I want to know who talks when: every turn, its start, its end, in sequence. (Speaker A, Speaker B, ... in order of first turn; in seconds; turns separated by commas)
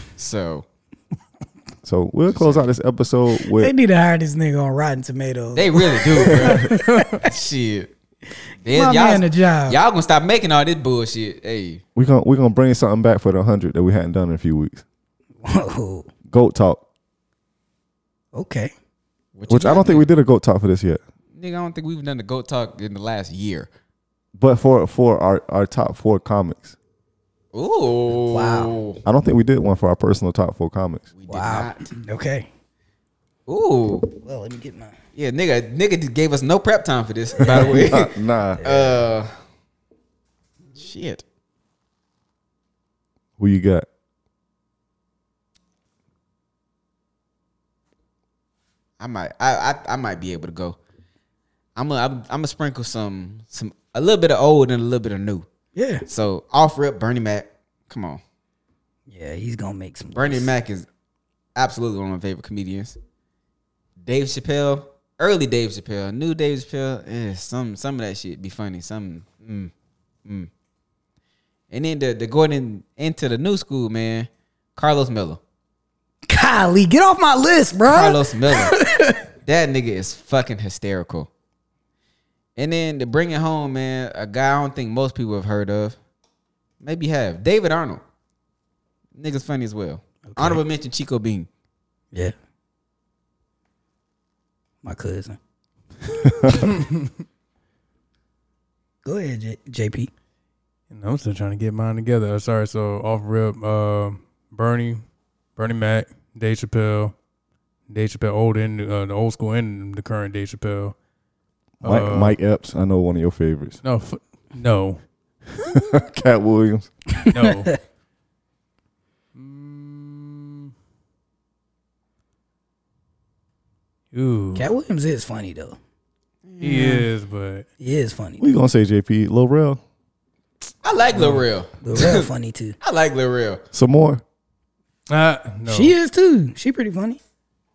Speaker A: 0.1-0.7, Speaker B: 1.8-3.7, Speaker A: 2.3-2.6, Speaker C: 3.5-7.3, Speaker A: 5.5-7.9, Speaker B: 6.3-6.7, Speaker D: 6.7-7.0, Speaker A: 8.6-11.8, Speaker C: 8.7-9.8, Speaker B: 11.9-14.8, Speaker C: 15.4-16.1, Speaker B: 16.3-16.8, Speaker C: 18.3-18.7, Speaker A: 19.4-20.1, Speaker B: 19.5-21.0, Speaker A: 21.3-23.7, Speaker B: 24.4-26.8, Speaker A: 27.5-29.0, Speaker C: 28.1-28.8, Speaker B: 29.0-31.1, Speaker A: 31.2-31.9, Speaker C: 31.3-32.5, Speaker A: 33.5-34.1, Speaker C: 34.2-35.0, Speaker A: 35.1-39.3, Speaker B: 37.4-38.6, Speaker C: 38.6-39.0, Speaker A: 40.7-41.2, Speaker B: 43.4-43.9, Speaker A: 49.0-50.8, Speaker A: 51.8-55.5, Speaker C: 55.7-56.0, Speaker A: 56.1-58.2, Speaker C: 59.1-60.5, Speaker A: 60.1-60.9, Speaker A: 61.5-63.0, Speaker A: 64.0-69.7, Speaker A: 70.2-70.5, Speaker A: 71.7-75.4, Speaker C: 76.3-79.2, Speaker A: 77.9-78.8, Speaker A: 79.4-81.3, Speaker A: 82.5-86.0, Speaker A: 86.8-88.0, Speaker A: 89.1-91.5, Speaker C: 90.2-90.6, Speaker C: 94.8-95.4, Speaker B: 96.2-96.7, Speaker C: 99.0-100.1, Speaker D: 100.9-105.0, Speaker D: 105.5-107.1, Speaker D: 107.9-110.9, Speaker D: 111.8-112.3, Speaker B: 111.8-113.8, Speaker D: 113.8-115.0, Speaker B: 115.6-116.9, Speaker D: 117.3-117.8, Speaker D: 119.3-120.7, Speaker D: 124.1-124.7, Speaker C: 124.5-125.8, Speaker A: 126.5-126.9, Speaker D: 126.6-127.7, Speaker C: 126.7-127.0, Speaker C: 127.8-128.4, Speaker B: 128.4-129.8, Speaker A: 130.8-132.3, Speaker D: 131.2-131.4, Speaker C: 131.8-132.8, Speaker A: 132.8-133.6, Speaker B: 133.7-134.2, Speaker D: 135.1-135.9, Speaker C: 135.7-137.2